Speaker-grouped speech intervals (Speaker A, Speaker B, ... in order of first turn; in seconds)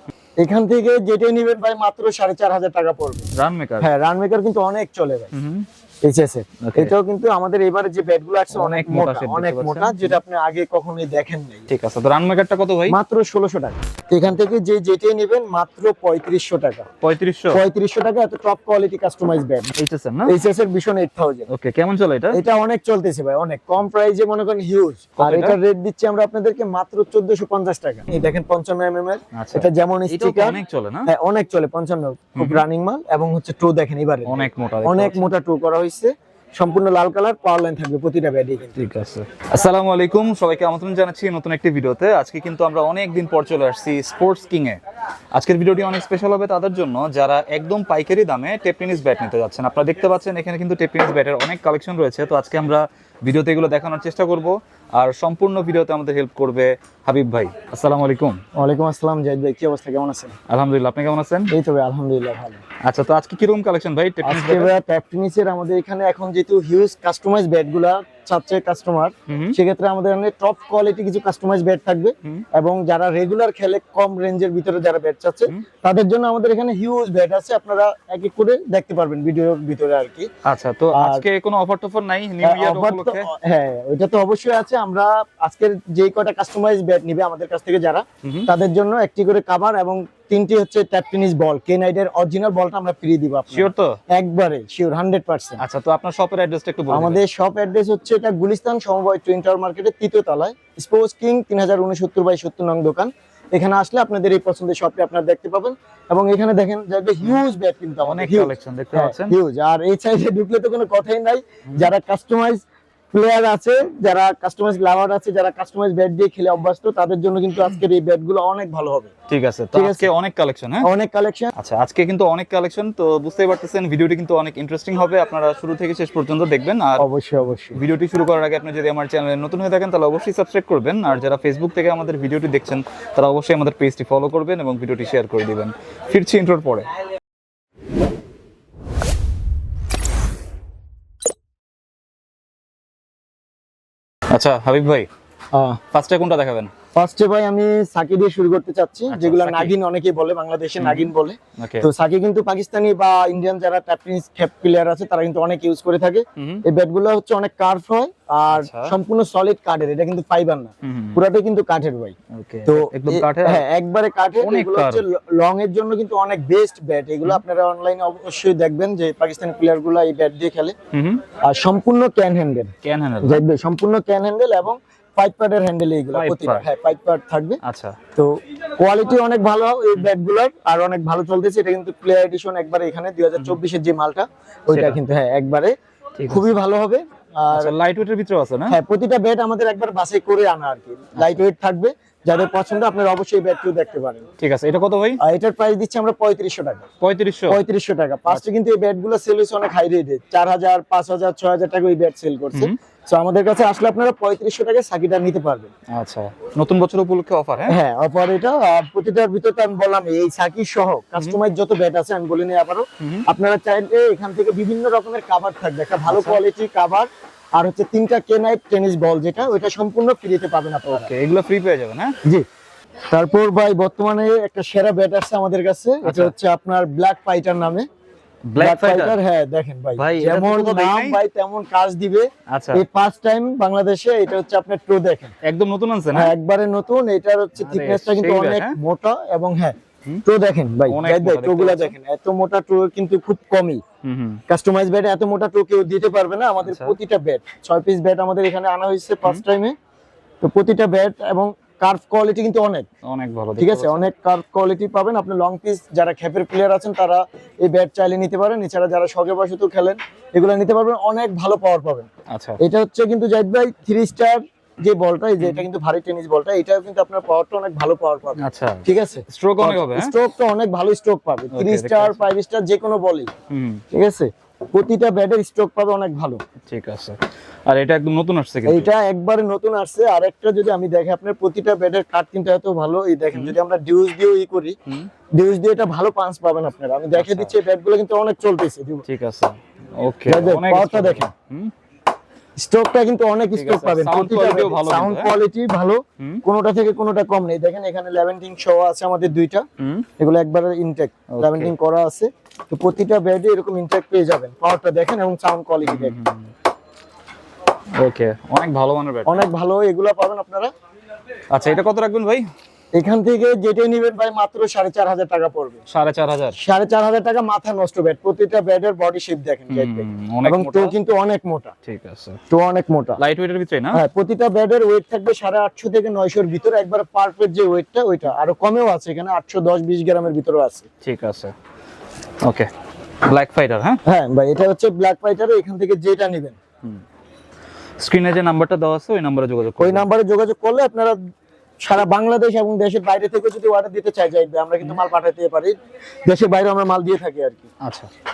Speaker A: 0.4-3.3, 3.8-5.3, 6.0-11.7, 12.9-16.9, 17.5-21.5, 22.3-38.8, 58.6-60.3, 61.5-62.6, 64.2-80.3, 80.9-81.2, 82.4-95.6, 96.9-119.1, 119.7-120.1, 120.8-121.5, 127.0-127.8, 145.5-145.8, 146.9-162.2, 162.7-170.7, 171.4-172.7, 173.2-177.6, 178.2-185.7, 186.3-187.7, 188.7-194.3, 195.2-196.8, 197.5-205.7, 207.7-221.1, 223.1-227.9, 228.6-235.3, 236.1-243.8, 244.5-249.8, 250.4-252.9, 253.6-262.1, 262.6-273.3, 273.9-276.4, 278.7-284.8, 285.3-289.1, 290.3-291.3, 292.6-299.6, 300.2-306.1, 309.3-310.7, 312.9-315.8, 316.6-321.7, 322.5-323.2, 323.9-330.9, 334.1-336.6, 339.8-341.2, 341.8-345.8, 346.3-347.7
Speaker B: 3.4-3.9, 5.3-5.7, 6.6-6.9, 8.5-10.2, 11.7-13.0, 17.0-17.6, 19.8-20.4, 21.5-22.4, 25.2-25.6, 29.3-31.1, 32.4-32.6, 34.3-35.2, 38.8-44.8, 45.4-58.4, 60.5-61.5, 62.9-64.7, 69.3-69.6, 80.5-83.3, 88.2-88.5, 93.5-94.0, 95.6-97.2, 108.0-109.4, 119.3-120.9, 121.5-127.0, 127.7-136.9, 144.3-145.1, 145.9-146.7, 149.1-149.8, 150.8-151.9, 156.4-156.6, 158.5-158.9, 160.8-161.2, 162.3-163.7, 164.4-165.0, 170.9-171.2, 172.8-173.4, 176.1-176.7, 177.6-178.0, 184.7-185.0, 186.2-186.6, 187.5-188.8, 191.2-191.4, 194.4-195.2, 197.0-197.6, 205.9-207.8, 213.0-213.3, 216.1-216.4, 220.9-222.2, 226.0-226.3, 228.5-229.2, 230.0-231.2, 232.5-232.8, 235.4-236.3, 237.6-238.8, 240.9-241.9, 244.0-244.4, 246.6-247.0, 253.0-254.0, 262.3-262.6, 265.4-265.7, 268.4-270.1, 271.5-272.3, 273.5-273.8, 276.7-278.9, 287.1-287.6, 289.1-291.7, 293.5-295.4, 299.8-300.1, 301.3-301.7, 305.8-306.5, 308.0-309.5, 311.5-312.5, 315.9-316.6, 319.7-321.0, 321.9-322.4, 323.2-324.0, 331.0-331.5, 332.4-332.7, 333.2-334.0, 338.0-340.1, 347.8-348.1